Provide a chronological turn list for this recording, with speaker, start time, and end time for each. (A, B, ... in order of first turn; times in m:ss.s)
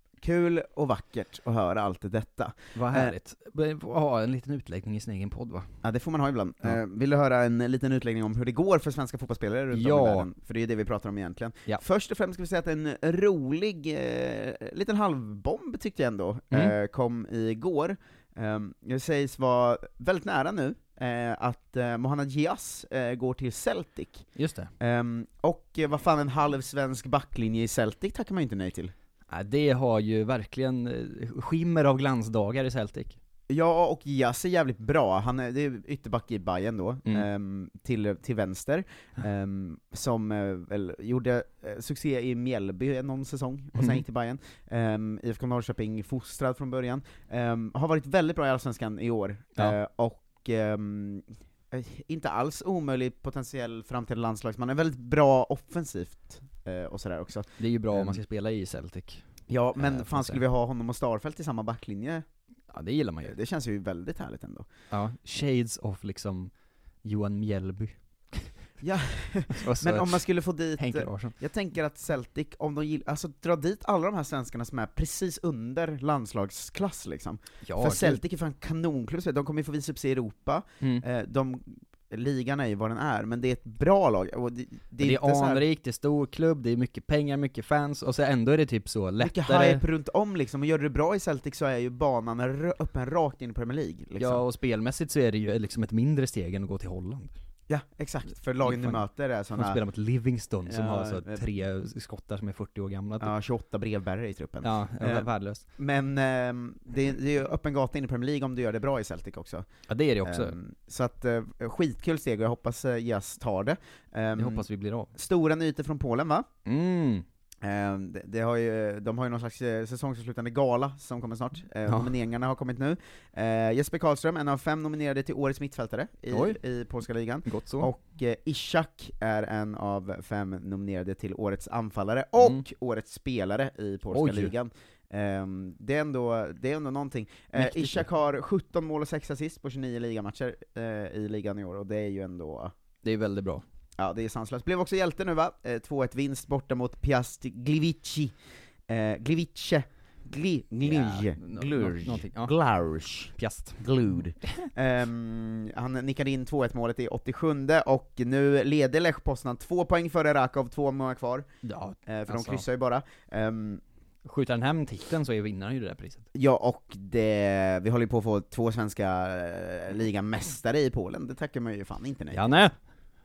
0:00.2-0:03.1 A
0:02.8-0:05.8 B
0:05.8-0:24.3 A
0:09.7-0:10.3 B
0:24.4-0:24.7 B
0:24.8-0:28.9 A
0:29.3-0:33.2 B
0:33.5-0:58.2 A
0:43.8-0:44.0 B
0:57.6-0:59.2 B
0:59.5-1:02.2 A
0:59.8-1:00.4 B
1:02.7-1:03.4 B
1:03.2-1:04.7 A
1:04.9-1:06.5 B
1:07.0-1:08.5 B
1:08.8-1:25.6 A
1:09.5-1:10.2 B
1:10.8-1:11.4 B
1:17.6-1:18.2 B
1:25.0-1:29.8 B
1:29.2-1:34.4 A
1:34.2-1:37.3 B
1:37.7-1:39.8 A
1:38.6-1:39.0 B
1:39.6-1:43.3 B
1:40.6-1:41.5 A
1:43.2-1:49.7 A
1:44.6-1:45.6 B
1:49.9-1:50.6 B
1:50.2-1:56.5 A
1:54.4-1:55.1 B
1:56.6-1:57.2 B
1:57.6-2:22.7 A
2:06.3-2:06.6 B
2:07.5-2:07.9 B
2:12.4-2:12.6 B
2:14.1-2:14.5 B
2:17.6-2:18.1 B
2:23.0-2:23.6 B
2:24.0-2:28.4 A
2:28.9-2:41.5 A
2:30.8-2:32.5 B
2:33.4-2:34.7 B
2:41.6-2:42.6 B
2:42.1-2:43.8 A
2:44.2-2:46.2 B
2:46.4-2:52.5 A
2:52.3-2:52.8 B